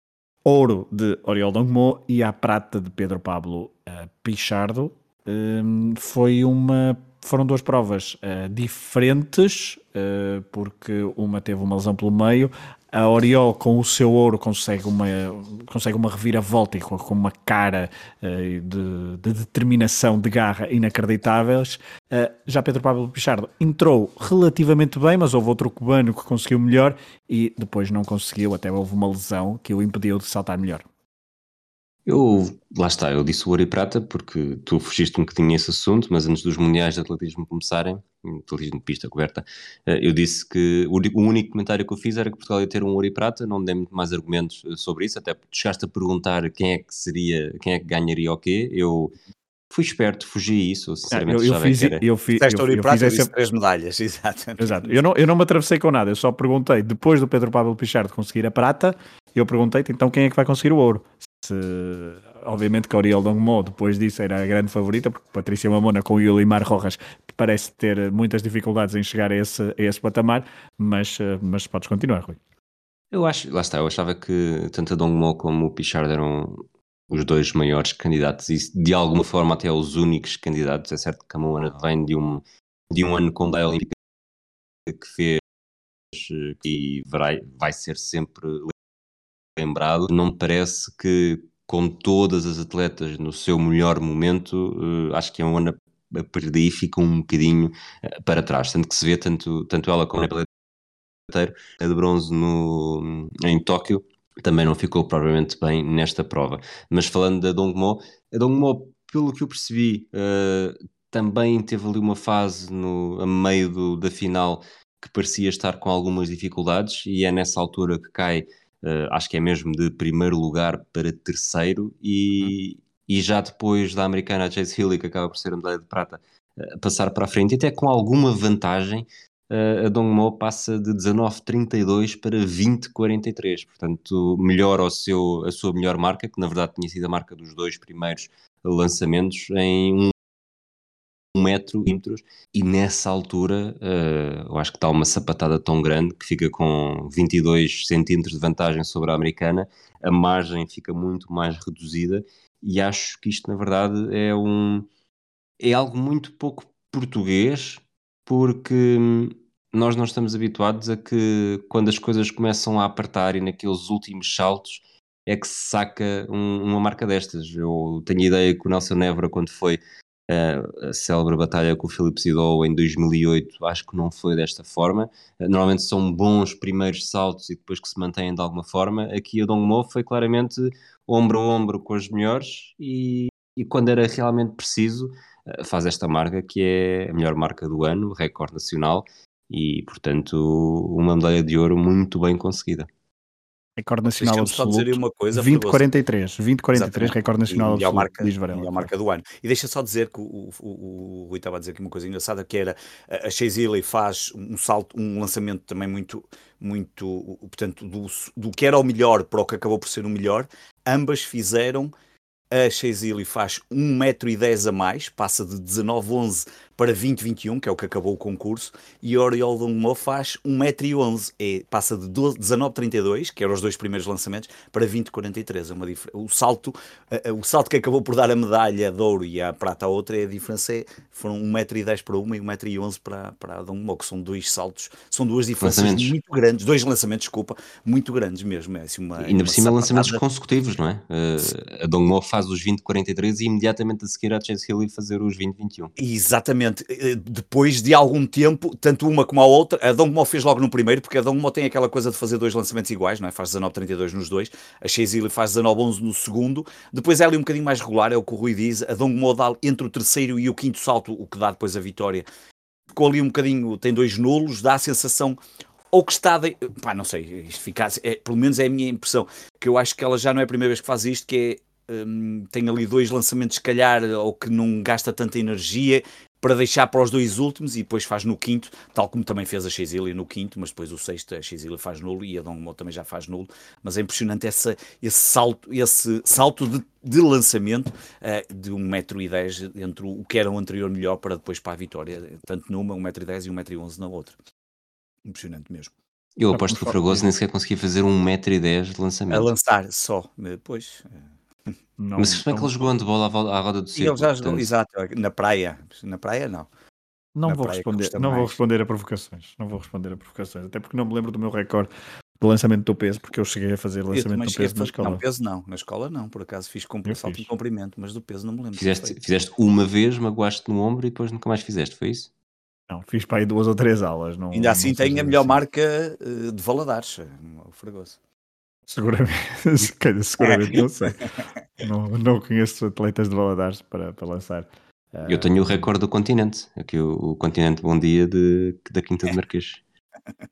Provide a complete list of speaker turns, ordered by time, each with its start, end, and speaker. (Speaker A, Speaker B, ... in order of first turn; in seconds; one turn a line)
Speaker A: 0.5-30.9
Speaker B: 32.0-49.1
Speaker B: 49.7-52.0
Speaker A: 51.1-53.3
Speaker C: 52.3-54.9
Speaker A: 54.6-72.4
Speaker B: 73.1-83.9
Speaker B: 84.9-85.4
Speaker B: 86.1-88.7
Speaker B: 89.6-100.5
Speaker B: 101.3-140.1
Speaker B: 141.3-154.9
Speaker B: 155.6-192.9
Speaker A: 193.8-198.9
Speaker C: 194.1-195.8
Speaker C: 196.7-211.9
Speaker C: 212.5-240.2
Speaker B: 235.6-236.1
Speaker B: 239.2-245.9
Speaker C: 246.0-262.2
Speaker C: 262.9-265.4
Speaker C: 265.9-294.4
Speaker C: 295.2-295.9
Speaker B: 296.4-299.5
Speaker A: 296.5-297.0
Speaker C: 299.3-301.2
Speaker A: 302.0-302.7
Speaker B: 302.2-304.7
Speaker C: 303.9-306.7
Speaker A: 307.4-311.9
Speaker C: 307.5-308.6
Speaker A: 312.4-315.2
Speaker C: 314.1-319.2
Speaker A: 317.1-317.5
Speaker B: 318.8-322.3
Speaker A: 322.9-325.6
Speaker C: 324.5-328.2
Speaker A: 328.9-331.2
Speaker C: 330.4-331.1
Speaker A: 331.8-335.8
Speaker B: 335.3-339.8